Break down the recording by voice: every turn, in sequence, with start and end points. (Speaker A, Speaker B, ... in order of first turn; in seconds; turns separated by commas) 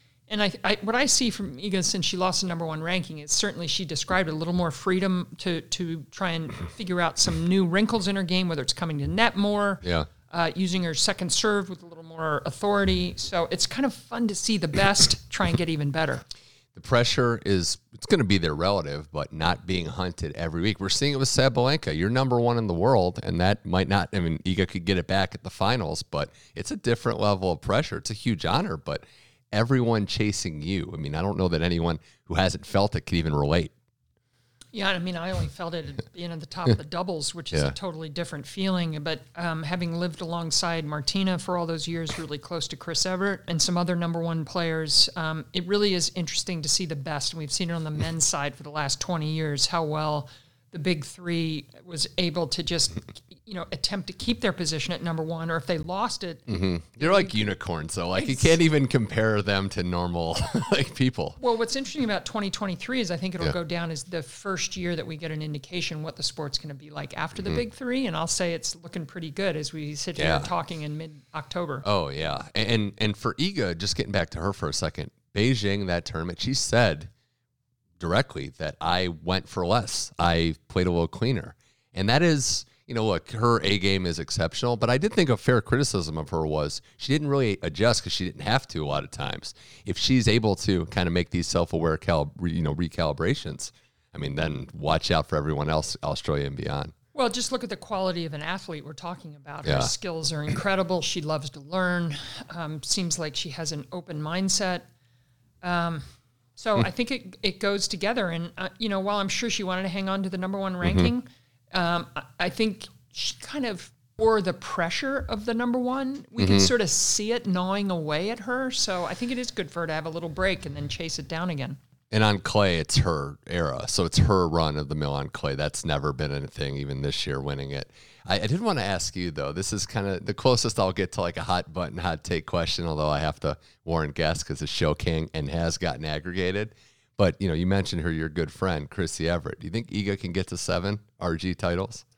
Speaker A: 0.3-16.2, Speaker B: 9.8-10.1, Speaker B: 16.8-33.7, Speaker A: 34.7-56.5, Speaker B: 56.5-61.4, Speaker A: 57.0-57.5, Speaker A: 58.1-58.5, Speaker A: 61.4-71.8, Speaker B: 70.2-70.5, Speaker B: 71.8-77.1, Speaker B: 78.0-96.9, Speaker A: 97.1-104.9, Speaker B: 99.6-99.9, Speaker A: 105.6-121.8, Speaker B: 110.8-111.1, Speaker B: 116.4-116.7, Speaker B: 122.1-142.0